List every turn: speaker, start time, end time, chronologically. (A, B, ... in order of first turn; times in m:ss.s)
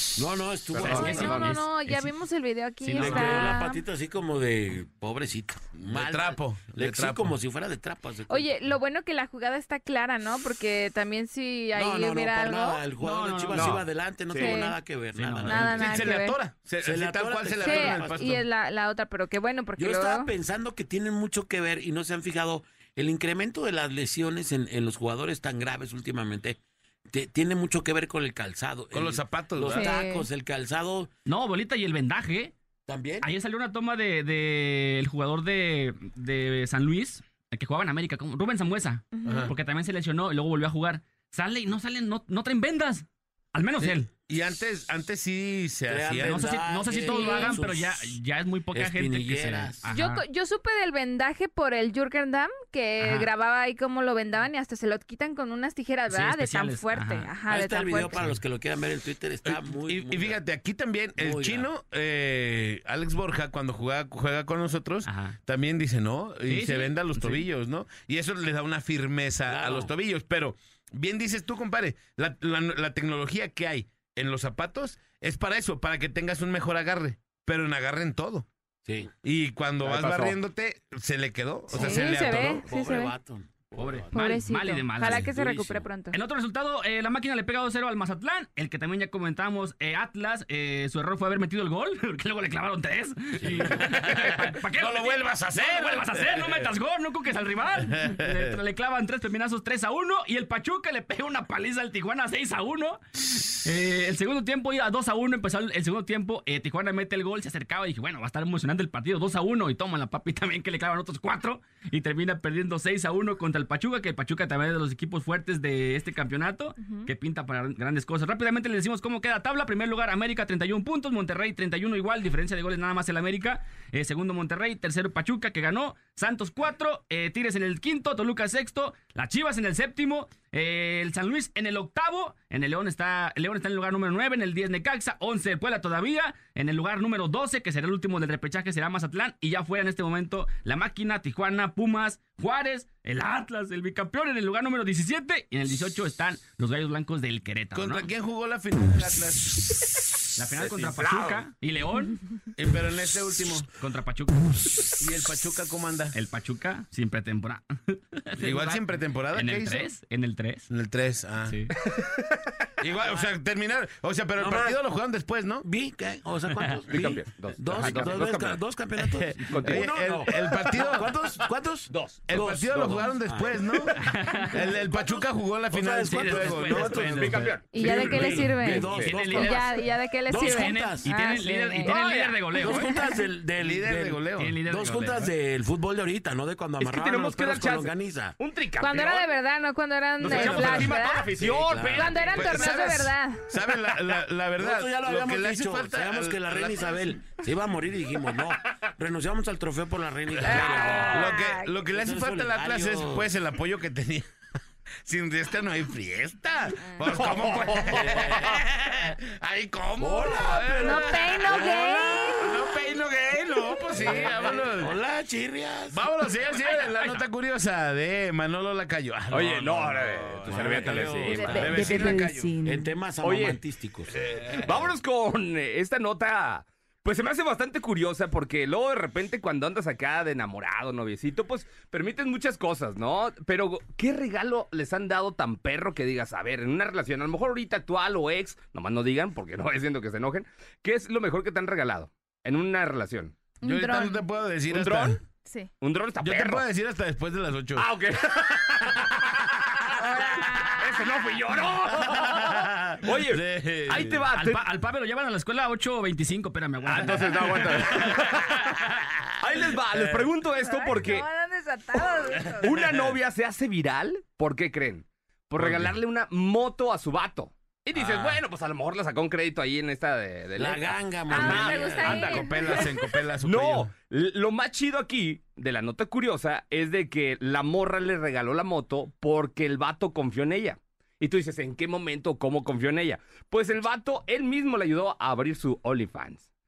0:00.2-0:01.5 A
0:00.7-0:01.5 B
0:00.8-0:02.2 C
0:00.9-0:03.8 D
0:02.8-0:03.6 C
0:03.0-0:08.5 A
0:05.9-0:07.4 E
0:08.3-0:12.8 D
0:11.7-0:16.1 A
0:13.0-0:13.8 C
0:13.5-0:14.6 B
0:14.4-0:14.8 D
0:15.2-0:15.8 C
0:15.5-0:16.4 D
0:15.6-0:18.4 E
0:16.8-0:18.3 A
0:17.6-0:20.3 D
0:19.8-0:26.6 A
0:27.1-0:31.1 A
0:28.9-0:29.9 E
0:29.7-0:30.3 D
0:31.2-0:32.5 C
0:32.9-0:33.3 A
0:33.2-0:44.1 C
0:39.1-0:39.5 D
0:39.2-0:39.5 E
0:43.8-0:46.5 E
0:45.9-0:48.2 A
0:46.2-0:50.2 C
0:47.0-0:47.6 D
0:48.7-0:49.9 A
0:49.9-0:58.2 D
0:53.0-0:53.3 C
0:56.1-0:57.3 C
0:57.5-1:00.4 A
0:59.4-1:18.5 E
1:01.2-1:01.7 A
1:05.0-1:05.4 C
1:06.5-1:07.4 C
1:09.5-1:09.9 A
1:18.8-1:19.1 A
1:19.2-1:22.6 E
1:19.8-1:20.4 B
1:21.7-1:24.1 A
1:21.7-1:23.1 D
1:23.8-2:28.1 C
1:24.1-1:26.2 D
1:33.8-1:36.7 E
1:37.9-1:38.6 E
1:56.8-1:57.1 D
2:27.7-2:29.8 E
2:30.4-2:32.2 C
2:30.8-2:31.4 B
2:32.6-2:33.7 E
2:33.8-2:34.9 C
2:35.0-2:36.2 E
2:36.1-2:40.7 C
2:38.4-2:39.9 E
2:40.7-2:41.6 E
2:41.5-2:41.7 C
2:41.9-2:42.2 B
2:42.8-2:45.7 E
2:44.4-2:44.8 A
2:45.6-2:54.0 A
2:46.9-2:48.6 B
2:49.0-2:51.1 E
2:49.5-2:49.9 B
2:51.9-2:52.2 B
2:52.3-2:54.0 E
2:54.0-2:54.5 C
2:54.5-2:57.6 E
2:54.7-2:59.7 A
2:56.1-2:57.4 C
2:57.1-2:59.1 B
2:57.7-3:01.9 D
2:57.9-2:59.8 C
3:00.3-3:01.1 A
3:00.3-3:02.9 C
3:01.8-3:02.4 B
3:02.6-3:08.4 A
3:02.6-3:03.1 D
3:03.6-3:04.6 E
3:04.4-3:05.3 C
3:06.8-3:09.3 B
3:08.8-3:11.3 D
3:10.2-3:12.8 B
3:10.3-3:10.9 E
3:10.4-3:12.6 A
3:11.9-3:13.5 D
3:12.3-3:17.0 E
3:14.6-3:21.3 A
3:20.4-3:21.3 B
3:20.5-3:21.7 D
3:21.1-3:24.3 E
3:21.9-3:23.3 A
3:25.0-3:35.0 E
3:27.1-3:28.5 B
3:27.8-3:28.6 A
3:30.0-3:32.5 A
3:30.8-3:32.6 D
3:33.9-3:36.0 A
3:34.3-3:34.6 B
3:35.9-3:42.6 E
3:39.3-3:42.1 B
3:40.5-3:44.2 A
3:41.3-3:42.9 D
3:43.2-3:43.6 B
3:44.1-3:44.8 E
3:44.6-4:03.3 B
4:03.6-4:04.2 D
4:03.6-4:05.2 E
4:04.7-4:05.2 B
4:05.4-4:05.7 D
4:05.8-4:06.6 B
4:06.2-4:07.9 E
4:07.8-4:09.7 B
4:10.0-4:11.1 D
4:10.8-4:14.6 B
4:12.0-4:14.2 E
4:14.3-4:18.0 C
4:16.9-4:18.7 B
4:19.4-4:21.2 B
4:19.9-4:20.2 E
4:20.6-4:22.8 D
4:22.6-4:32.9 B
4:22.6-4:23.2 E
4:25.6-4:26.0 E
4:28.0-4:28.4 E
4:30.6-4:32.4 A
4:31.3-4:33.0 D
4:32.0-4:33.9 E
4:33.4-4:46.4 B